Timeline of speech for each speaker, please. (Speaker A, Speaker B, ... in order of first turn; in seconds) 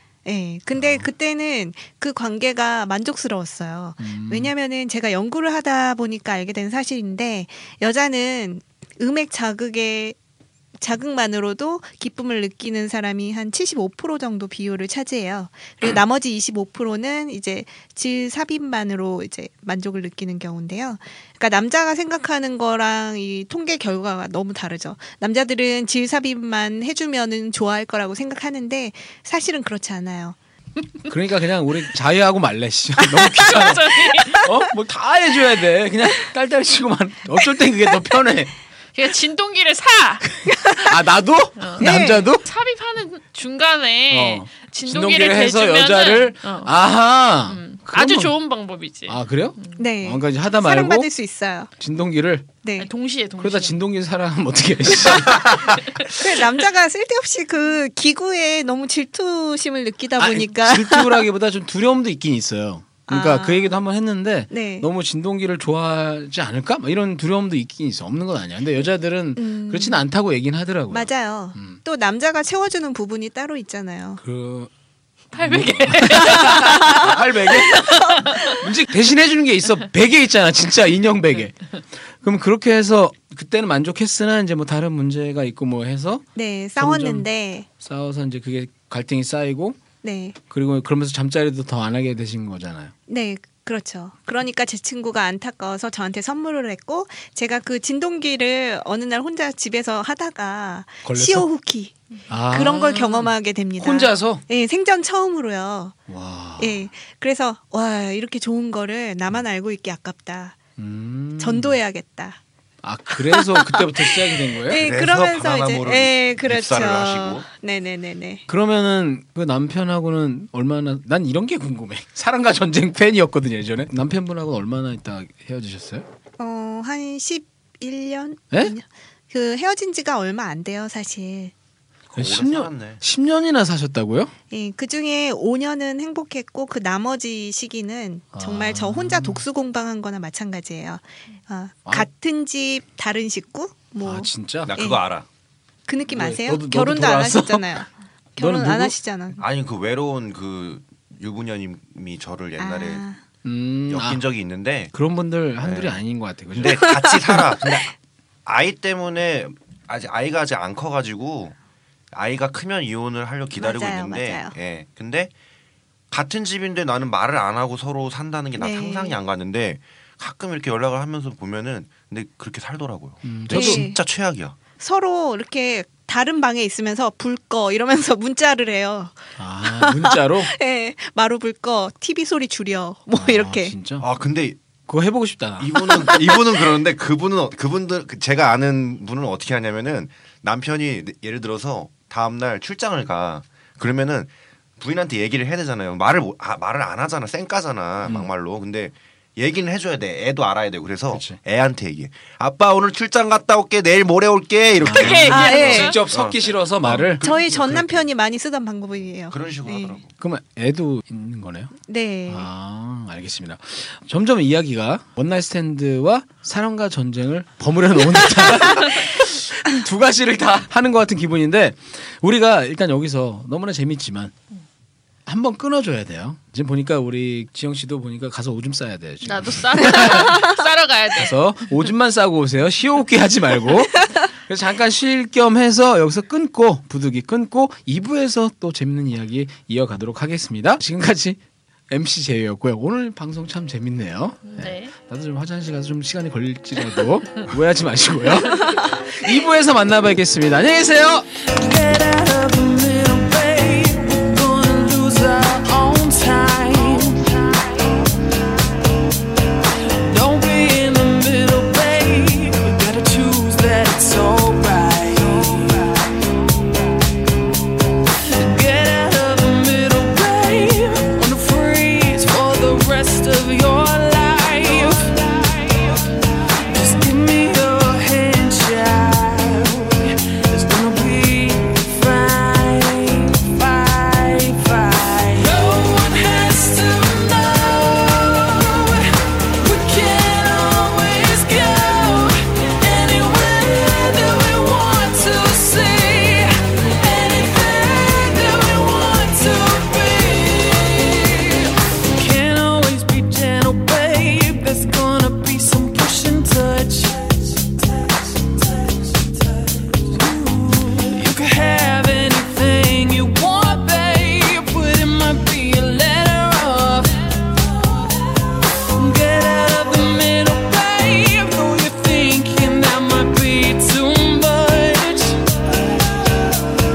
Speaker A: 0.2-10.2, 10.8-30.4, 41.8-42.3, 49.8-51.7, 52.6-52.9, 56.1-61.2, 63.1-63.8, 64.5-64.9, 69.4-70.0, 70.9-74.2, 76.2-77.2, 77.7-78.5, 86.3-87.7, 90.0-90.3, 93.1-101.9, 102.5-106.0, 106.6-110.6, 111.4-112.4, 113.2-118.4, 126.4-131.5, 134.5-145.0, 145.9-149.4, 152.6-153.2, 157.1-157.8, 163.6-164.5, 168.6-169.2, 173.5-174.0, 174.8-183.7, 185.8-186.6, 205.3-205.9, 207.2-210.0, 211.8-212.5
Speaker B: 0.7-1.1, 4.0-4.5, 31.1-38.5, 40.4-42.4, 44.1-48.3, 49.1-51.1, 51.8-52.5, 53.4-55.8, 60.2-71.8, 74.2-74.7, 75.3-86.2, 86.8-87.3, 87.8-89.8, 90.5-92.9, 101.0-101.4, 102.3-104.4, 106.1-106.8, 110.8-111.8, 112.8-114.8, 118.5-126.1, 132.1-134.3, 138.3-139.4, 144.0-144.7, 146.1-147.8, 148.4-148.9, 153.4-154.2, 154.9-156.9, 173.2-173.9, 179.4-180.5, 183.1-184.1, 184.9-185.9, 198.0-198.3, 201.1-201.4, 204.8-208.0, 210.2-211.7, 212.3-224.3, 225.2-230.4, 231.2-241.4, 241.9-251.3
Speaker C: 33.4-34.5, 38.9-40.2, 41.6-46.7, 47.5-49.9, 52.8-53.8, 75.3-77.1, 77.7-78.5, 204.9-206.0, 229.2-231.9, 244.4-244.9
Speaker D: 114.8-117.5, 132.1-133.0, 144.7-145.2, 149.4-153.0, 153.9-154.9, 155.6-156.0, 156.5-157.9, 158.4-161.6, 162.1-165.3, 166.1-174.6, 184.0-184.6, 185.6-207.2, 209.3-210.1
Speaker E: 251.5-258.2, 260.0-266.8, 268.2-318.0, 318.9-326.7